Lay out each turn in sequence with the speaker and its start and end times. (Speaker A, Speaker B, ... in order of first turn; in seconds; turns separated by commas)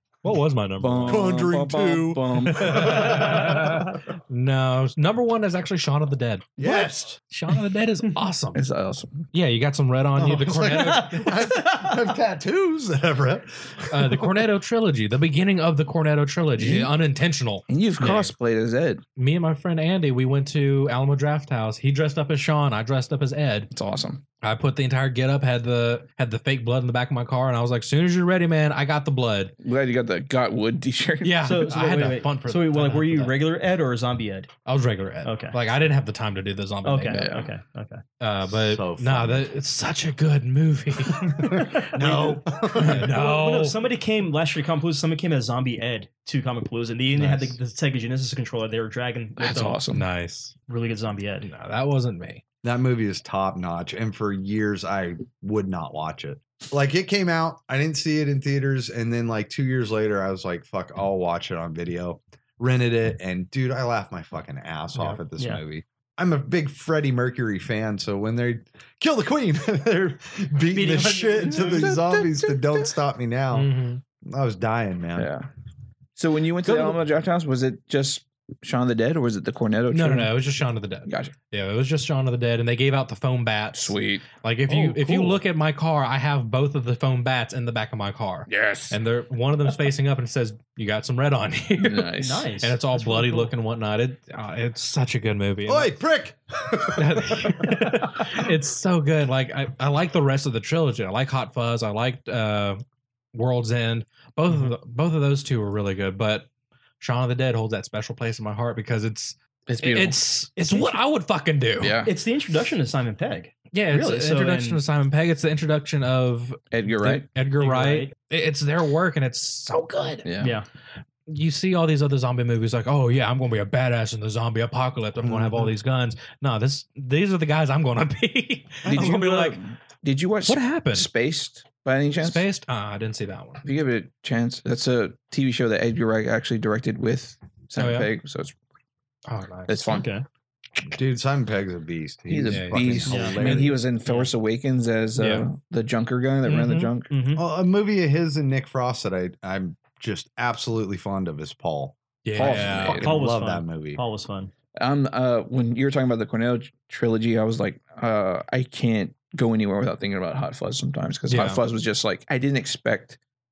Speaker A: 0.2-1.4, Speaker B: 0.8-3.1, Speaker C: 1.1-3.6, Speaker A: 2.6-8.6, Speaker C: 6.6-7.2, Speaker B: 8.5-9.3, Speaker A: 9.3-11.4, Speaker C: 10.1-14.5, Speaker A: 13.9-18.3, Speaker B: 16.6-16.9, Speaker B: 17.7-19.0, Speaker A: 19.1-23.7, Speaker B: 23.7-24.2, Speaker A: 24.4-29.5, Speaker B: 29.6-31.5, Speaker A: 31.2-33.4, Speaker D: 31.4-34.5, Speaker A: 34.6-37.2, Speaker D: 35.2-35.6, Speaker D: 36.8-38.0, Speaker B: 37.1-37.5, Speaker A: 38.2-41.7, Speaker C: 38.5-39.5, Speaker C: 41.3-43.2, Speaker D: 42.0-42.4, Speaker A: 42.8-43.8, Speaker D: 43.0-49.8, Speaker C: 47.2-47.5, Speaker B: 49.4-50.0, Speaker A: 49.9-50.5, Speaker D: 50.7-51.5, Speaker A: 51.4-52.4, Speaker C: 52.6-75.3, Speaker D: 70.7-71.8, Speaker B: 71.5-72.9, Speaker A: 73.5-74.0, Speaker B: 75.2-75.5, Speaker B: 76.2-80.4, Speaker A: 79.9-95.9, Speaker B: 81.0-81.3, Speaker B: 83.7-85.4, Speaker B: 88.5-89.0, Speaker B: 91.8-92.5, Speaker D: 92.2-93.5, Speaker C: 95.6-97.8, Speaker A: 97.0-102.8, Speaker A: 103.3-106.5, Speaker A: 107.0-112.0, Speaker B: 109.7-110.2, Speaker D: 110.6-110.9, Speaker B: 111.8-112.1, Speaker D: 112.0-114.8, Speaker A: 113.7-120.3, Speaker B: 116.7-117.3, Speaker D: 117.6-118.1, Speaker B: 120.2-120.5, Speaker D: 120.4-120.7, Speaker A: 121.3-129.6, Speaker C: 125.2-125.7, Speaker C: 128.8-129.2, Speaker B: 128.9-132.4, Speaker A: 130.4-131.1, Speaker A: 132.2-133.6, Speaker B: 133.6-138.5, Speaker A: 137.7-138.1, Speaker A: 139.2-139.8, Speaker B: 139.7-140.1, Speaker D: 139.9-140.2, Speaker C: 140.9-143.8, Speaker B: 142.3-147.1, Speaker A: 142.5-143.1, Speaker D: 143.1-143.4, Speaker A: 145.2-145.4, Speaker A: 146.5-146.9, Speaker D: 146.5-147.4, Speaker C: 147.3-154.0, Speaker A: 152.2-153.1, Speaker B: 152.3-153.1, Speaker D: 152.9-154.5, Speaker B: 154.8-163.2, Speaker A: 161.3-161.6